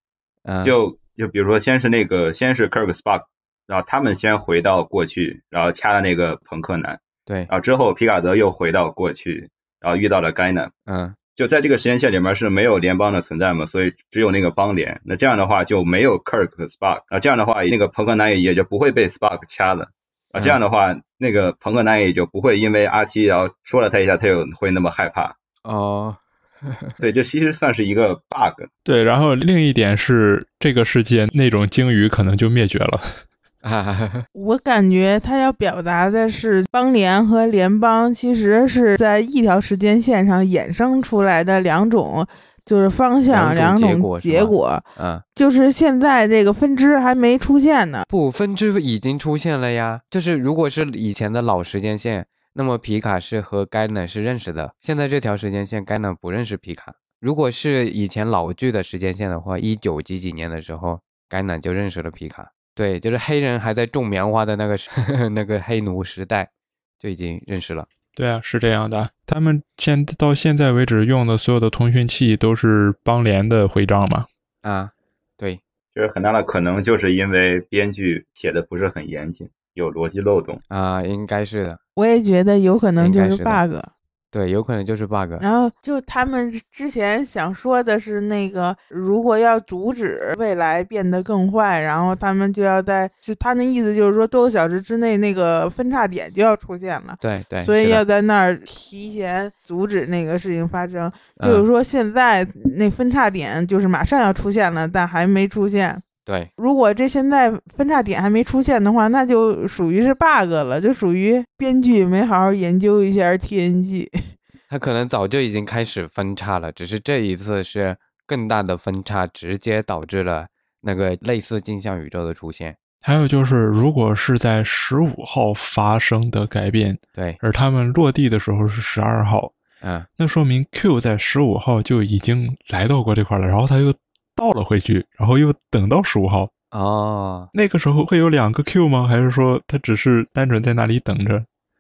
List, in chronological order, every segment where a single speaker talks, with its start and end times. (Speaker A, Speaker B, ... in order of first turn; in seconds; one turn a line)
Speaker A: 0.4-0.8
Speaker B: 0.6-10.7
Speaker A: 10.8-11.2
Speaker B: 11.3-25.3
Speaker A: 25.6-27.0
Speaker B: 27.0-28.7
Speaker C: 28.8-33.2
Speaker A: 33.6-34.2
Speaker D: 34.3-48.0
Speaker A: 43.3-45.2
Speaker A: 48.1-67.9
Speaker C: 68.2-74.3
Speaker A: 74.6-75.6
Speaker B: 75.9-80.6
Speaker A: 80.7-81.8
Speaker D: 82.0-83.9
Speaker A: 83.0-83.6
Speaker A: 84.3-85.4
Speaker D: 85.4-106.0
Speaker A: 97.2-98.0
Speaker A: 101.4-101.7
Speaker A: 106.2-106.5
Speaker D: 106.6-114.1
Speaker A: 114.7-122.8
Speaker C: 123.0-129.6
Speaker A: 127.1-127.4
Speaker A: 129.8-130.1
Speaker C: 130.2-136.5
Speaker A: 136.7-137.5
Speaker C: 137.5-141.5